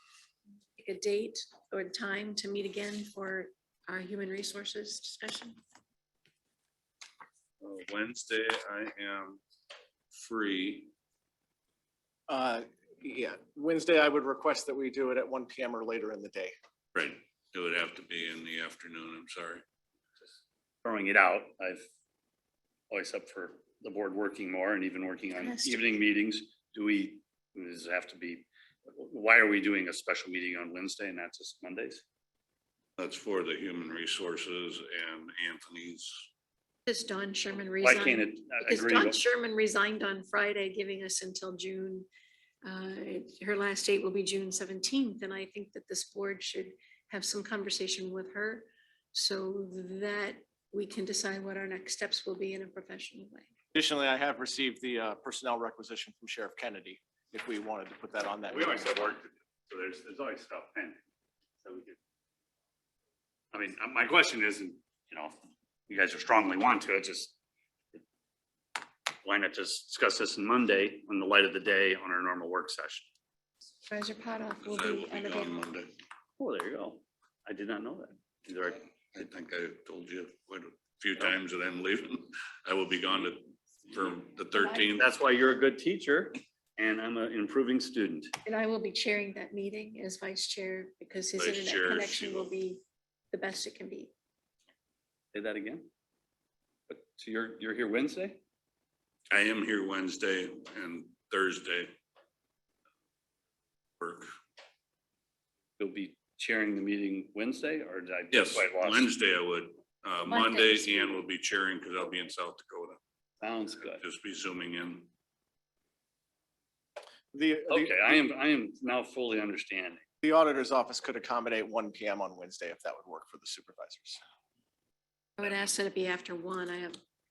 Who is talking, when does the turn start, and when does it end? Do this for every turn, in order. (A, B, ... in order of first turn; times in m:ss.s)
0:00.8-0:05.6 A
0:07.6-0:09.4 B
0:10.1-0:10.9 B
0:12.3-0:16.5 C
0:16.9-0:19.6 B
0:20.8-0:21.8 D
0:22.9-0:32.0 D
0:25.4-0:25.8 A
0:33.0-0:36.2 B
0:36.8-0:42.1 A
0:37.8-0:39.2 D
0:42.6-0:53.5 A
0:53.7-0:58.9 C
0:58.5-1:01.0 D
1:01.6-1:02.0 D
1:03.5-1:07.3 D
1:09.2-1:13.1 D
1:13.8-1:15.6 A
1:14.6-1:15.9 B
1:16.4-1:18.8 D
1:19.1-1:25.1 B
1:24.5-1:24.9 A
1:25.0-1:28.3 D
1:28.4-1:34.1 A
1:31.4-1:32.5 B
1:35.3-1:35.9 D
1:36.9-1:38.4 D
1:39.3-1:41.9 B
1:44.0-1:44.3 B
1:45.8-1:49.1 D
1:48.3-1:53.0 B
1:50.3-1:51.2 A
1:53.4-1:54.0 D
1:54.0-1:55.1 B
1:57.3-1:58.2 C
1:57.7-2:00.0 D
2:00.2-2:04.2 C
2:05.4-2:07.0 A